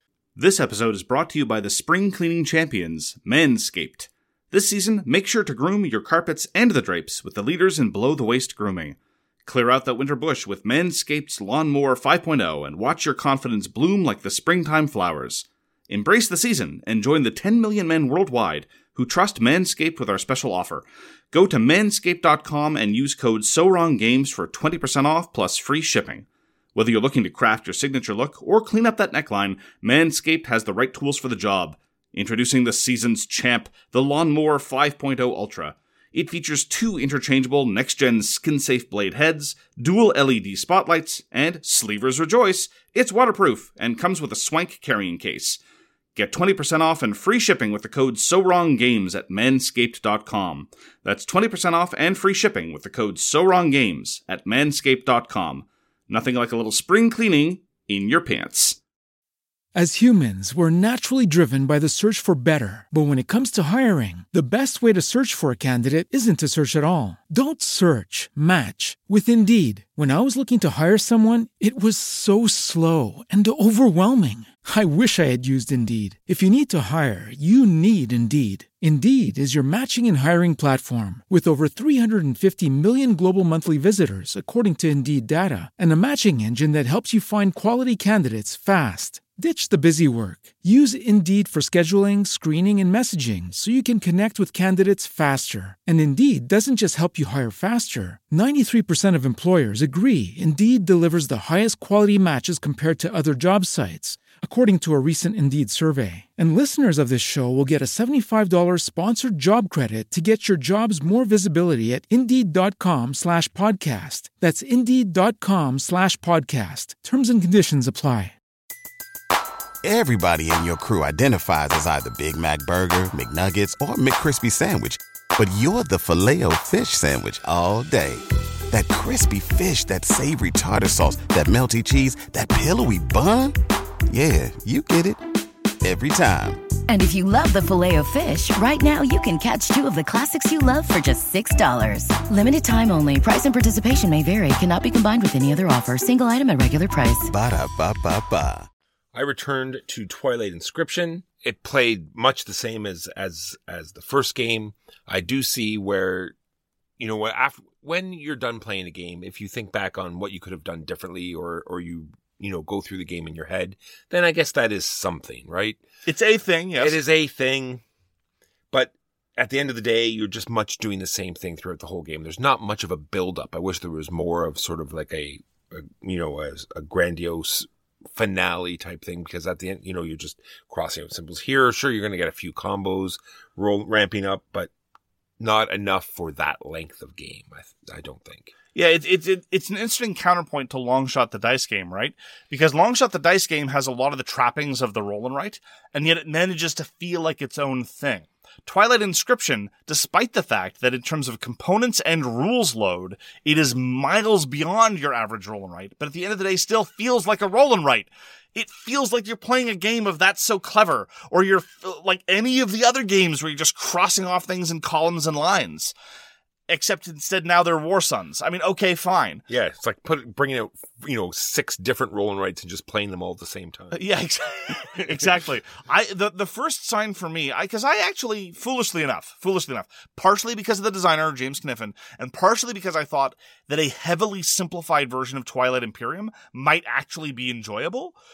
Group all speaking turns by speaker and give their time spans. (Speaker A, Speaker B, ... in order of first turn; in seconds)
Speaker A: 0.4-45.6, 46.1-58.8, 166.1-167.0, 188.7-215.9, 216.7-219.4, 223.9-238.1
Speaker B: 59.7-118.4
Speaker C: 119.8-133.6, 134.1-135.2, 135.8-136.6, 147.3-148.7
Speaker D: 136.9-147.3
Speaker E: 149.1-156.3, 157.0-165.8, 166.8-167.8, 168.7-184.7, 185.4-188.5, 219.5-224.0